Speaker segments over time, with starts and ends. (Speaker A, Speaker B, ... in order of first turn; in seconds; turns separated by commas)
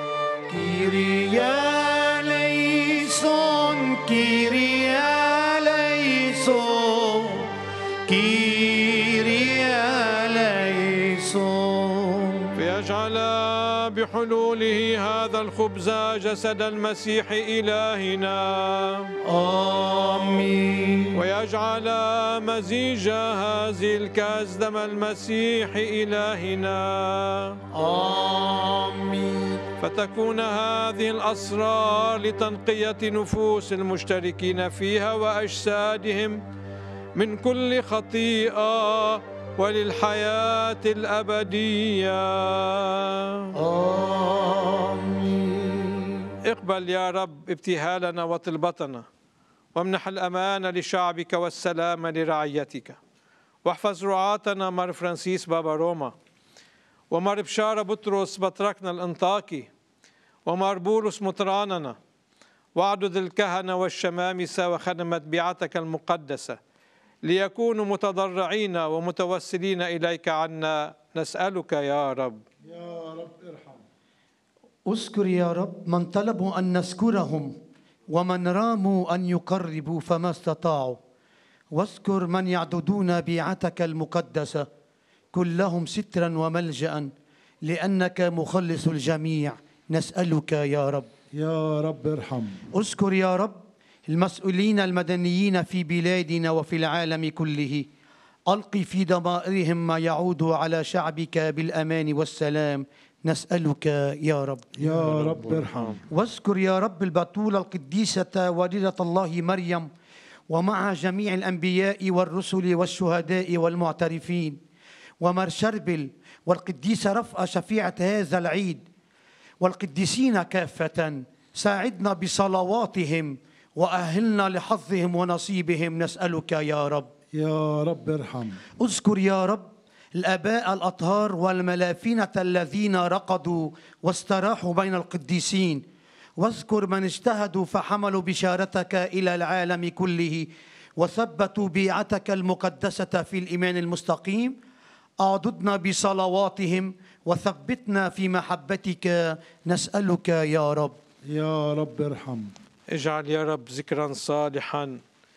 Speaker A: 0.5-7.5, Speaker A: 8.1-12.6, Speaker B: 12.6-19.1, Speaker A: 19.2-21.2, Speaker B: 21.1-27.6, Speaker A: 27.7-29.6, Speaker B: 29.8-36.4, Speaker B: 37.1-43.5, Speaker A: 43.5-46.3, Speaker B: 46.5-49.0, Speaker B: 49.7-53.0, Speaker B: 53.6-56.1, Speaker B: 57.1-59.7, Speaker B: 60.5-62.0, Speaker B: 62.7-66.6, Speaker B: 67.2-72.4, Speaker C: 72.6-73.8, Speaker A: 74.9-77.5, Speaker A: 78.1-81.0, Speaker A: 81.7-84.7, Speaker A: 85.3-87.1, Speaker A: 87.6-91.1, Speaker C: 91.3-92.6, Speaker A: 92.7-97.9, Speaker A: 98.5-104.7, Speaker C: 104.8-106.0, Speaker B: 105.0-106.0, Speaker A: 106.1-109.9, Speaker A: 110.5-114.6, Speaker A: 115.2-118.8, Speaker A: 119.6-127.1, Speaker C: 127.3-128.6, Speaker A: 128.8-135.8, Speaker A: 136.4-144.6, Speaker A: 145.2-151.0, Speaker C: 151.3-152.5, Speaker B: 152.9-155.0